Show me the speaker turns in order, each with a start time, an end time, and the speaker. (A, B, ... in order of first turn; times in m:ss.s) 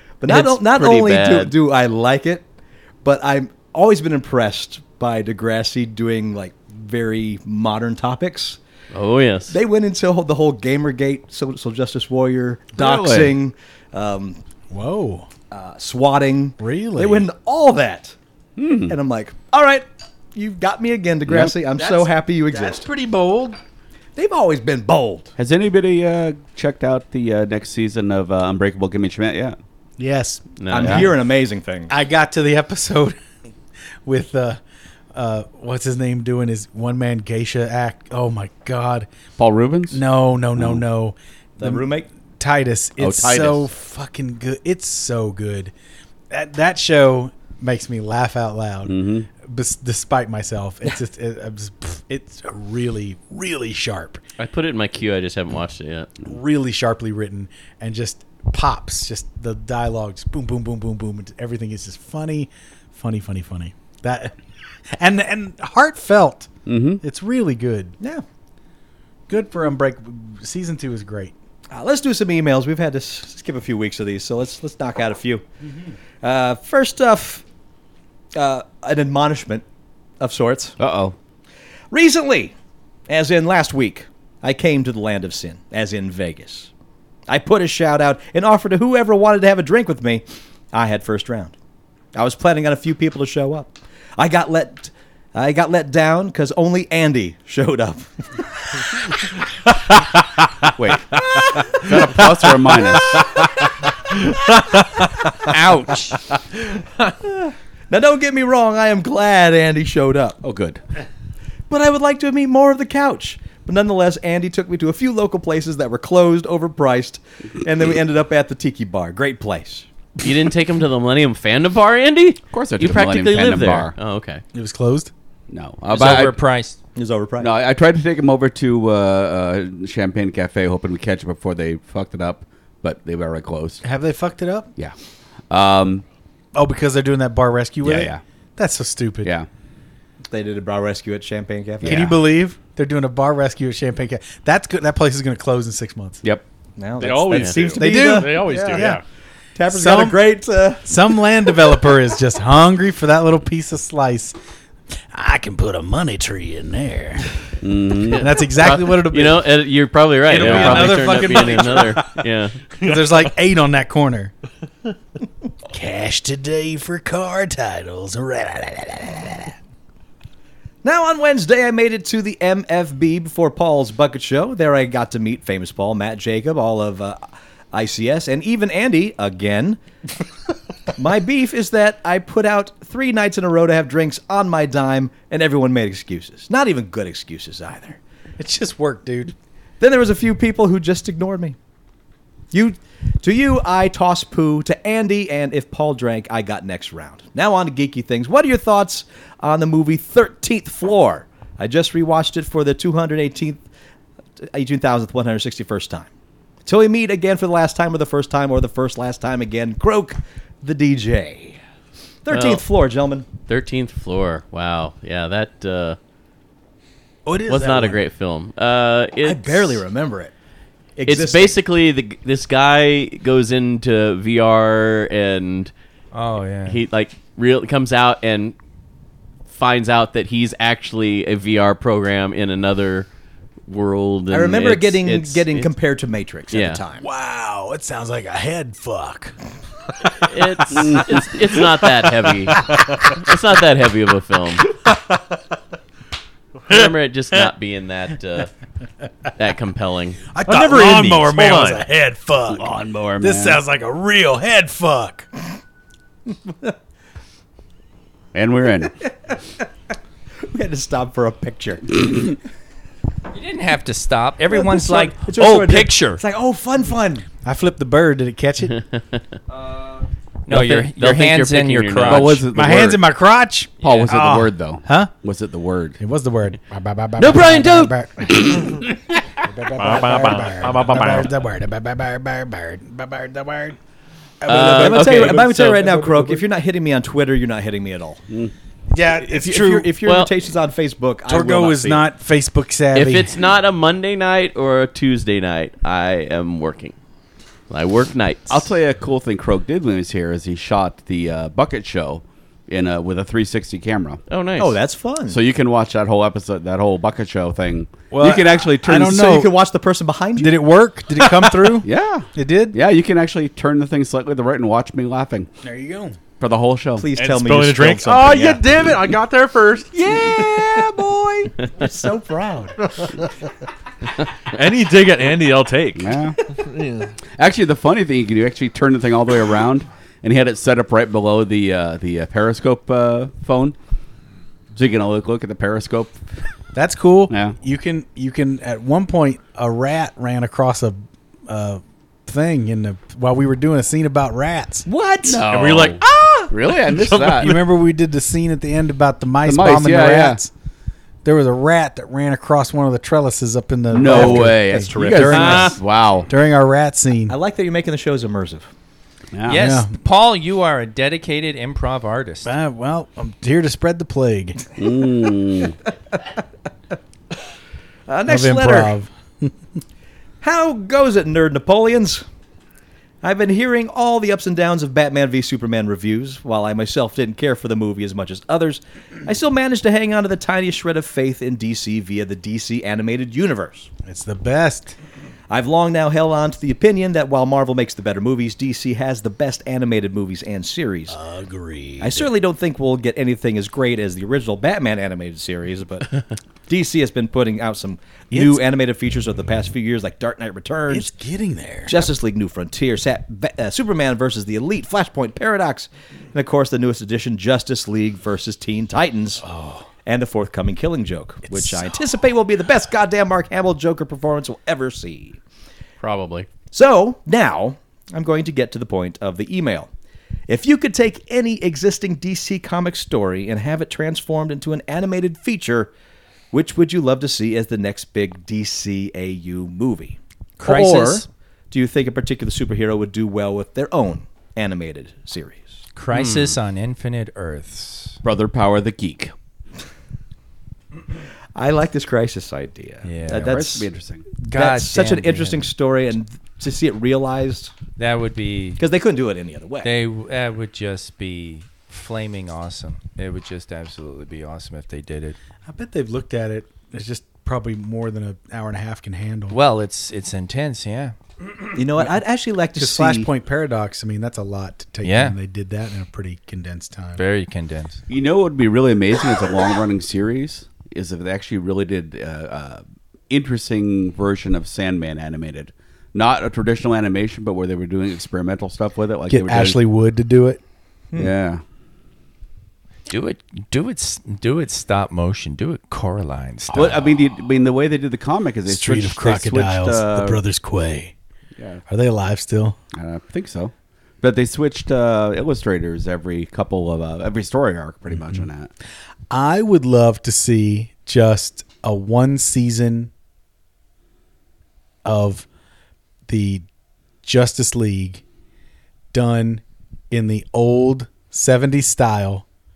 0:00.2-0:02.4 A
0:00.3-0:01.5 B
0:03.0-0:08.6 A
0:08.9-0:09.6 B
0:09.5-0:14.4 A
0:12.8-0:13.3 C
0:14.7-0:15.3 D
0:15.5-0:18.2 A
0:16.6-0:17.3 D
0:18.6-0:19.0 C
0:18.9-0:22.9 A
0:21.3-0:21.5 C
0:21.7-0:23.6 D
0:24.2-0:25.3 A
0:25.4-0:29.6 C
0:30.0-0:31.1 D
0:30.6-0:31.1 B
0:30.7-0:31.9 A
0:30.8-0:31.1 C
0:31.9-0:33.2 D
0:34.0-0:34.6 D
0:35.1-0:39.1 D
0:39.4-0:40.0 C
0:39.9-0:45.7 D
0:40.6-0:40.8 C
0:41.6-0:42.1 A
0:43.0-0:43.7 C
0:46.3-0:54.2 D
0:48.8-0:49.3 C
0:54.4-0:56.1 B
0:56.2-1:04.4 D
1:05.0-1:08.0 D
1:06.6-1:07.0 C
1:09.3-1:11.3 D
1:11.7-1:15.4 A
1:16.2-1:17.4 A
1:18.3-1:19.6 A
1:20.2-1:20.8 A
1:20.8-1:21.2 C
1:21.9-1:22.5 A
1:23.1-1:26.7 A
1:27.3-1:31.5 A
1:32.1-1:38.1 A
1:40.8-1:43.2 C
1:41.3-1:45.1 E
1:45.4-1:46.2 F
1:47.3-1:50.4 A
1:50.4-1:50.8 C
1:51.7-1:59.8 A
2:00.2-2:04.4 B
2:02.5-2:03.9 C
2:04.5-2:05.1 D
2:05.5-2:06.4 C
2:05.9-2:06.8 F
2:06.9-2:07.5 A
2:07.4-2:13.8 C
2:13.8-2:14.7 D
2:15.5-2:16.0 C
2:16.5-2:19.3 D
2:17.8-2:18.2 C
2:20.3-2:22.1 A
2:21.8-2:22.2 C
2:21.8-2:26.2 D
2:26.8-2:29.0 A
2:27.0-2:29.0 E
2:27.3-2:27.7 B
2:27.7-2:29.0 D
2:29.5-2:30.9 A
2:29.7-2:30.3 D
2:30.8-2:34.4 D
2:35.1-2:37.3 D
2:37.6-2:38.3 C
2:38.1-2:42.6 B
2:38.1-2:39.5 D
2:40.2-2:42.2 D
2:40.4-2:40.9 C
2:42.8-2:44.3 D
2:42.8-2:43.2 E
2:45.7-2:49.5 D
2:50.8-2:57.2 A
2:57.7-2:59.8 A
3:01.0-3:08.0 A
3:08.4-3:09.3 D
3:09.8-3:11.6 A
3:12.5-3:23.6 A
3:24.4-3:26.1 A
3:26.6-3:31.6 A
3:32.2-3:33.3 A
3:32.3-3:32.6 B
3:33.4-3:36.0 B
3:37.2-3:38.0 D
3:37.5-3:39.8 B
3:39.2-3:40.3 A
3:41.0-3:41.6 A
3:41.1-3:45.7 B
3:46.1-3:46.8 F
3:46.6-3:48.6 B
3:49.5-3:53.1 B
3:53.7-3:55.7 B
3:54.3-3:57.0 A
3:56.5-3:56.8 B
3:57.0-3:59.3 D
4:00.2-4:04.6 B
4:00.7-4:01.1 C
4:02.5-4:03.2 E
4:06.7-4:08.5 B
4:06.7-4:07.5 E
4:09.4-4:10.2 B
4:10.3-4:15.3 D
4:10.4-4:11.8 E
4:12.5-4:13.6 C
4:18.3-4:18.9 C
4:19.0-4:19.6 A
4:20.4-4:22.0 A
4:23.3-4:26.2 F
4:24.4-4:27.2 A
4:27.4-4:28.8 D
4:30.5-4:32.4 F
4:30.5-4:32.4 B
4:32.0-4:33.0 C
4:32.5-4:35.1 D
4:33.8-4:36.0 C
4:36.0-4:43.8 D
4:37.2-4:37.9 B
4:39.7-4:41.3 E
4:44.4-4:46.4 D
4:44.4-4:46.1 B
4:44.5-4:48.2 A
4:48.9-4:49.9 D
4:49.2-4:52.1 A
4:50.0-4:50.3 B
4:51.3-4:53.4 D
4:52.9-4:56.9 B
4:57.7-4:58.6 B
4:58.5-5:04.2 C
5:04.3-5:04.8 B
5:04.6-5:05.4 A
5:05.3-5:09.2 C
5:08.1-5:09.6 D
5:08.9-5:10.6 A
5:10.4-5:12.8 D
5:11.8-5:15.5 C
5:15.6-5:16.2 D
5:16.4-5:17.1 C
5:17.0-5:18.8 A
5:17.2-5:20.6 E
5:19.9-5:22.8 A
5:24.5-5:27.1 E
5:26.0-5:26.4 C
5:27.4-5:33.8 C
5:34.7-5:36.2 C
5:36.7-5:44.9 D
5:37.3-5:37.6 C
5:44.8-5:45.5 A
5:45.3-5:46.0 C
5:45.4-5:45.9 B
5:45.4-5:46.0 E
5:46.5-5:47.6 C
5:46.7-5:47.6 E
5:47.4-5:50.5 D
5:49.4-5:50.4 C
5:51.2-5:57.4 D
5:53.9-5:56.3 C
5:54.0-5:55.7 A
5:55.3-5:55.7 F
5:57.3-5:58.7 A
5:59.3-5:59.7 C
5:59.5-6:02.5 F
5:59.5-5:59.9 D
6:02.4-6:04.6 D
6:04.8-6:05.8 C
6:08.1-6:08.9 A
6:08.3-6:09.5 D
6:10.4-6:12.2 A
6:13.2-6:23.9 A
6:24.0-6:24.9 D
6:25.5-6:31.2 A
6:31.1-6:32.3 D
6:32.0-6:41.1 A
6:38.3-6:38.6 D
6:40.9-6:42.1 D
6:41.8-6:49.4 A
6:49.4-6:49.9 D
6:50.0-6:55.4 A
6:51.4-6:52.0 D
6:56.0-6:56.5 B
6:56.7-6:59.9 A
7:00.5-7:05.9 A
7:06.5-7:15.8 A
7:10.6-7:11.3 F
7:15.9-7:18.2 F
7:16.1-7:16.5 B
7:18.2-7:19.3 C
7:21.5-7:23.9 A
7:23.0-7:23.6 F
7:23.3-7:24.3 C
7:24.4-7:25.6 F
7:24.5-7:27.7 A
7:28.0-7:28.8 F
7:28.8-7:29.9 A
7:29.8-7:35.4 F
7:35.7-7:39.6 D
7:39.5-7:41.1 F
7:41.7-7:43.3 A
7:42.8-7:47.2 D
7:45.0-7:45.4 F
7:47.2-7:48.0 F
7:48.1-7:59.8 C
7:59.3-8:00.6 D
8:01.2-8:01.6 C
8:03.1-8:07.0 F
8:06.7-8:10.4 C
8:08.7-8:11.1 D
8:11.6-8:11.8 C
8:11.9-8:12.8 D
8:12.9-8:18.7 C
8:19.3-8:23.1 D
8:25.0-8:25.4 D
8:26.3-8:26.6 D
8:27.2-8:28.2 D
8:29.1-8:32.4 D